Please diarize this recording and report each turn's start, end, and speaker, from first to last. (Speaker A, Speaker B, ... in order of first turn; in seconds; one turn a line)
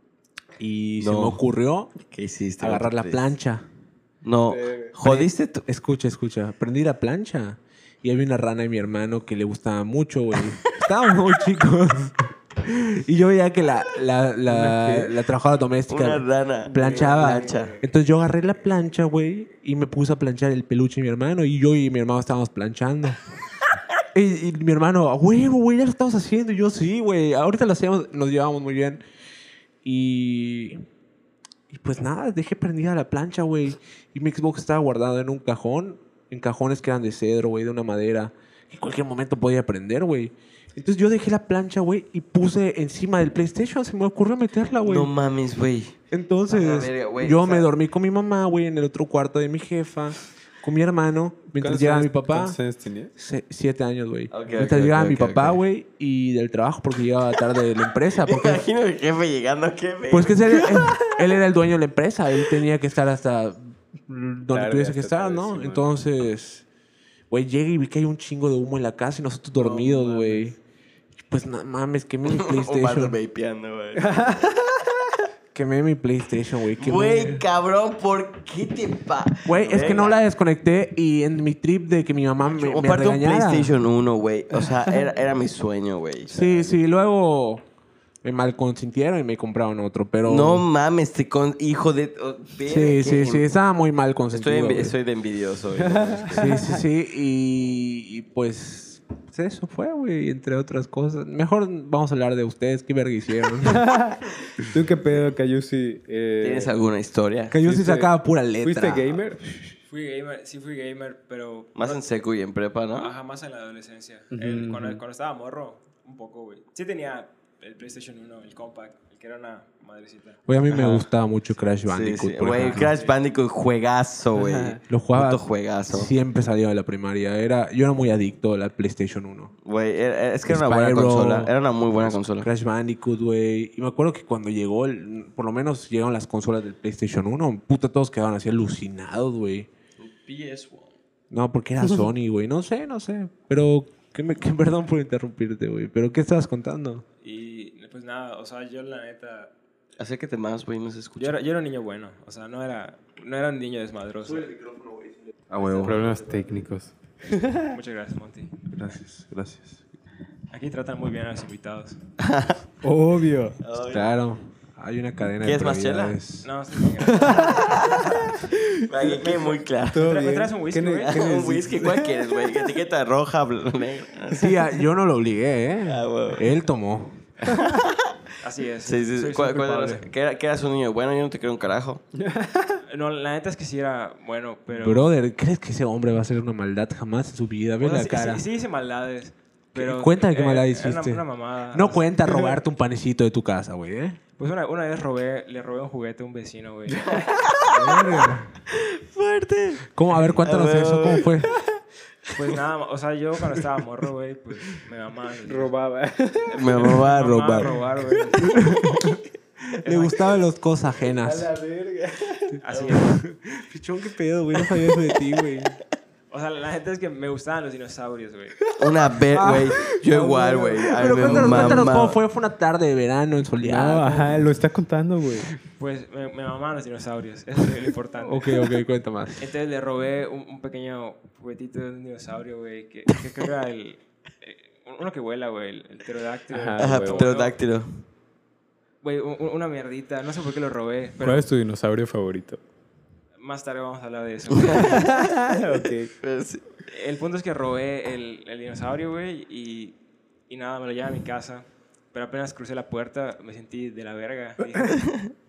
Speaker A: 0.6-1.9
Speaker B: 1.0-1.4
Speaker B: 2.1-3.3
Speaker A: 2.6-3.7
Speaker B: 4.2-5.6
Speaker C: 4.5-4.9
Speaker A: 5.0-23.2
Speaker C: 14.5-15.2
Speaker B: 15.9-17.8
Speaker C: 16.7-17.8
Speaker A: 24.1-29.0
Speaker A: 29.8-30.8
Speaker A: 31.7-45.1
Speaker B: 44.9-46.0
Speaker A: 46.1-52.6
Speaker B: 46.5-47.7
Speaker C: 51.6-53.1
Speaker A: 53.2-58.6
Speaker B: 54.3-55.6
Speaker B: 58.2-61.0
Speaker A: 60.1-66.7
Speaker C: 64.5-65.9
Speaker A: 67.3-70.6
Speaker B: 69.6-70.2
Speaker A: 71.3-73.2
Speaker B: 72.3-74.2
Speaker C: 74.0-75.1
Speaker A: 75.5-77.4
Speaker B: 76.8-80.2
Speaker A: 79.5-83.7
Speaker B: 82.5-86.8
Speaker A: 86.3-87.6
Speaker A: 88.2-90.7
Speaker B: 90.3-93.4
Speaker A: 92.7-95.0
Speaker B: 94.3-96.7
Speaker C: 95.8-96.6
Speaker A: 96.3-103.9
Speaker C: 103.7-106.7
Speaker B: 106.4-107.6
Speaker A: 107.5-109.1
Speaker C: 107.6-109.5
Speaker D: 109.9-112.0
Speaker B: 111.8-113.1
Speaker D: 112.9-120.4
Speaker C: 114.3-115.0
Speaker A: 120.5-122.9
Speaker B: 120.7-121.1
Speaker B: 121.9-126.1
Speaker D: 122.6-123.2
Speaker C: 124.3-124.8
Speaker A: 124.9-129.5
Speaker B: 129.7-132.5
Speaker A: 130.5-139.7
Speaker B: 140.0-140.9
Speaker A: 141.3-147.0
Speaker D: 147.2-149.5
Speaker B: 150.0-151.4
Speaker D: 151.2-154.5
Speaker A: 154.3-156.0
Speaker C: 155.8-157.6
Speaker D: 157.7-158.6
Speaker A: 158.7-159.8
Speaker D: 160.5-162.0
Speaker B: 162.2-162.6
Speaker C: 162.8-163.6
Speaker B: 163.6-164.1
Speaker A: 163.9-166.5
Speaker B: 165.4-166.2
Speaker D: 166.4-168.3
Speaker C: 167.1-167.6
Speaker B: 167.6-168.0
Speaker B: 168.9-170.0
Speaker D: 169.0-171.3
Speaker C: 169.9-172.6
Speaker B: 171.1-174.5
Speaker A: 174.3-177.2
Speaker B: 175.9-176.5
Speaker B: 177.4-178.2
Speaker D: 178.4-180.1
Speaker B: 178.8-182.0
Speaker C: 182.2-182.8
Speaker D: 182.9-185.1
Speaker A: 184.7-188.4
Speaker D: 187.8-192.2
Speaker A: 189.7-194.2
Speaker D: 194.4-197.2
Speaker B: 197.2-197.8
Speaker A: 197.7-198.5
Speaker B: 198.7-199.9
Speaker A: 199.9-201.5
Speaker B: 200.4-201.4
Speaker D: 202.3-205.7
Speaker C: 205.5-206.9
Speaker B: 206.5-207.7
Speaker D: 206.7-208.7
Speaker C: 207.6-208.1
Speaker A: 208.4-211.5
Speaker D: 209.8-210.2
Speaker C: 211.2-212.6
Speaker D: 212.6-213.2
Speaker A: 212.9-215.8
Speaker D: 216.3-218.6
Speaker B: 218.8-222.2
Speaker A: 219.3-224.5
Speaker C: 221.1-221.8
Speaker C: 223.6-225.5
Speaker D: 225.8-228.7
Speaker A: 228.2-229.5
Speaker D: 229.4-237.6
Speaker C: 236.5-237.3
Speaker B: 236.8-238.0
Speaker D: 239.0-241.5
Speaker C: 241.2-242.6
Speaker D: 243.4-245.1
Speaker B: 244.6-245.2
Speaker C: 244.8-246.1
Speaker B: 246.2-246.7
Speaker D: 246.9-250.0
Speaker D: 250.5-255.1